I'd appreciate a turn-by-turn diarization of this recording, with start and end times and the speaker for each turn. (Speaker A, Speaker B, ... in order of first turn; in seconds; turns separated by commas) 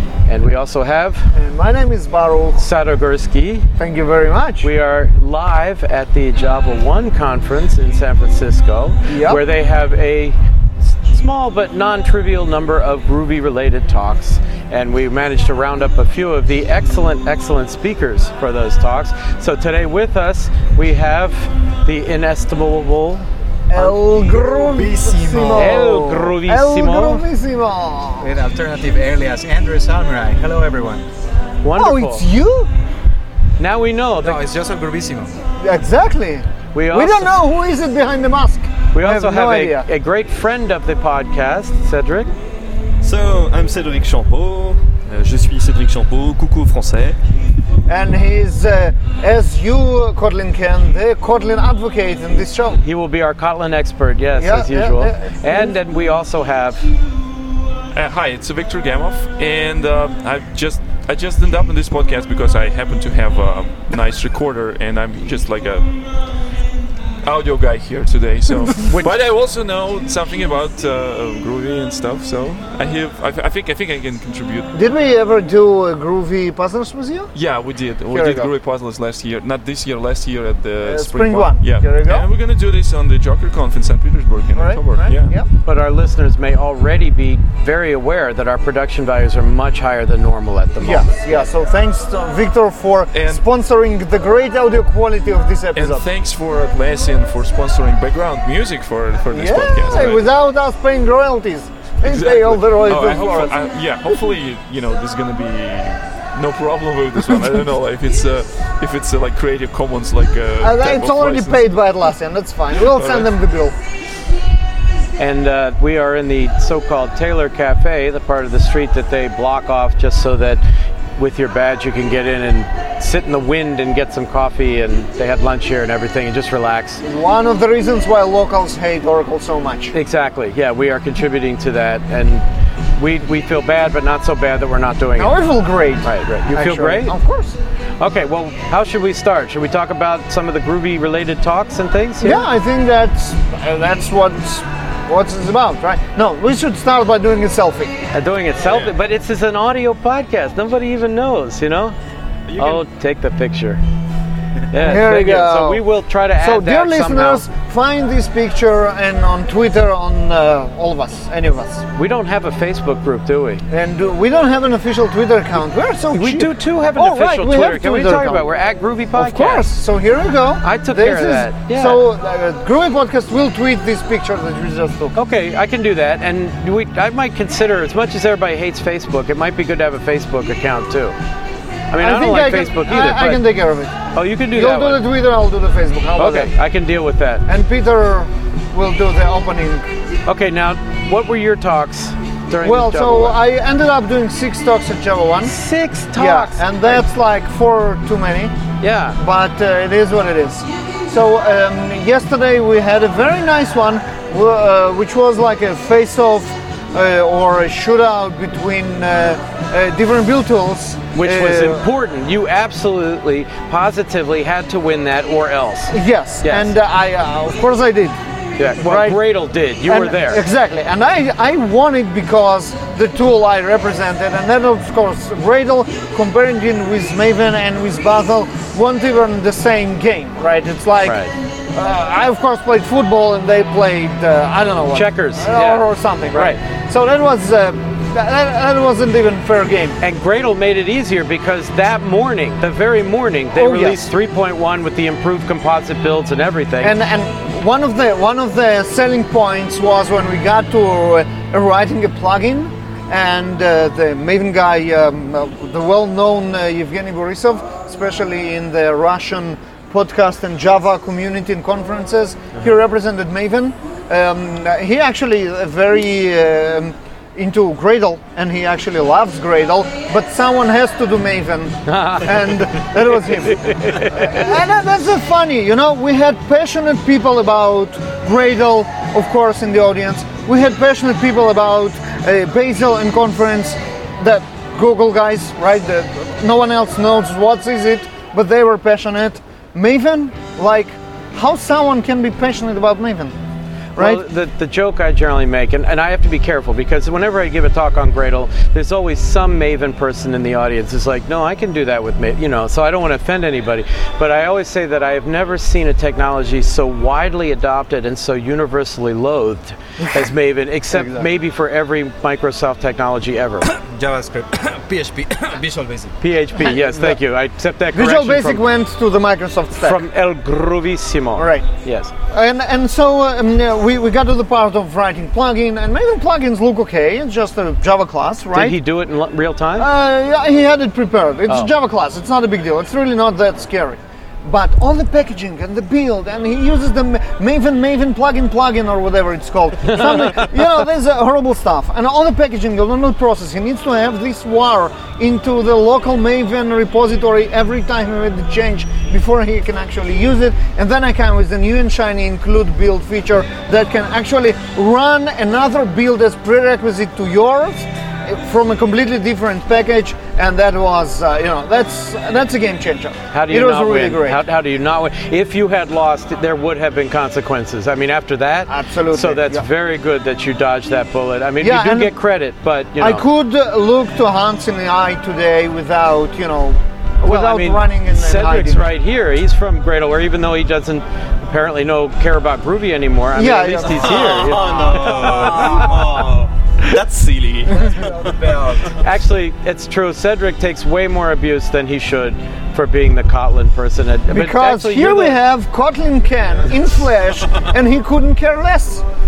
Speaker A: 0.3-1.3, Speaker B: 1.3-2.6, Speaker A: 2.6-3.7, Speaker B: 3.8-4.7, Speaker A: 4.6-24.0, Speaker B: 9.1-9.4, Speaker B: 23.7-28.3, Speaker C: 24.4-25.8, Speaker A: 25.6-27.2, Speaker C: 28.2-31.1, Speaker A: 31.6-32.2, Speaker B: 31.8-32.7, Speaker A: 33.6-34.4, Speaker C: 34.2-35.4, Speaker B: 35.6-39.9, Speaker A: 36.7-37.3, Speaker A: 38.9-42.3, Speaker D: 43.0-47.2, Speaker B: 47.9-52.8, Speaker A: 52.8-56.9, Speaker B: 54.4-55.8, Speaker E: 57.9-65.8, Speaker E: 67.2-74.7, Speaker B: 74.7-77.3, Speaker E: 77.3-85.4, Speaker B: 78.1-78.5, Speaker B: 80.8-82.3, Speaker B: 84.5-85.5, Speaker A: 85.6-91.5, Speaker B: 90.8-96.1, Speaker E: 93.1-93.4, Speaker E: 95.8-100.3, Speaker B: 99.3-103.6, Speaker E: 102.0-111.7, Speaker B: 110.6-113.8, Speaker E: 112.8-113.3, Speaker A: 115.2-120.6, Speaker A: 121.2-127.0, Speaker B: 127.0-129.9, Speaker A: 129.9-132.4, Speaker A: 133.0-135.4, Speaker B: 135.2-137.6, Speaker A: 136.0-137.2, Speaker A: 138.0-142.4, Speaker B: 142.2-148.0, Speaker A: 148.1-152.0, Speaker D: 152.5-152.8, Speaker A: 152.6-153.8, Speaker A: 154.7-157.4, Speaker B: 154.8-155.8, Speaker B: 156.4-161.8, Speaker A: 162.0-163.6, Speaker B: 163.7-168.5, Speaker A: 166.1-169.7, Speaker B: 169.2-175.2, Speaker A: 170.6-172.0, Speaker A: 175.1-181.2, Speaker A: 181.9-183.5, Speaker B: 182.0-183.9, Speaker A: 184.1-185.0, Speaker B: 184.5-186.5, Speaker A: 186.2-187.4, Speaker B: 187.5-189.9, Speaker A: 190.3-193.4, Speaker B: 192.6-195.6, Speaker A: 195.4-197.0, Speaker B: 196.1-198.6, Speaker A: 198.8-199.2, Speaker B: 199.2-211.8, Speaker A: 211.1-216.7, Speaker B: 215.9-218.2, Speaker A: 218.6-220.4, Speaker B: 218.8-219.2, Speaker B: 219.8-240.0, Speaker A: 231.0-231.3, Speaker A: 234.9-236.6, Speaker A: 240.0-247.0, Speaker B: 243.6-244.1, Speaker B: 246.8-293.4, Speaker A: 271.9-272.6, Speaker A: 273.6-274.3, Speaker A: 294.0-313.7, Speaker B: 294.0-294.2, Speaker B: 310.9-311.2, Speaker C: 313.6-316.2, Speaker A: 316.2-318.6, Speaker B: 316.6-317.2, Speaker B: 317.9-320.0, Speaker A: 319.8-322.1, Speaker B: 321.4-321.7, Speaker B: 322.3-328.8, Speaker A: 328.5-329.9, Speaker B: 329.8-364.4, Speaker A: 331.5-331.7, Speaker A: 363.3-373.2, Speaker B: 368.7-369.6, Speaker B: 371.6-372.1, Speaker B: 373.0-378.9, Speaker A: 377.2-385.7, Speaker B: 383.4-384.7, Speaker D: 383.9-388.9, Speaker C: 385.2-386.1, Speaker A: 388.9-395.4, Speaker B: 394.3-399.0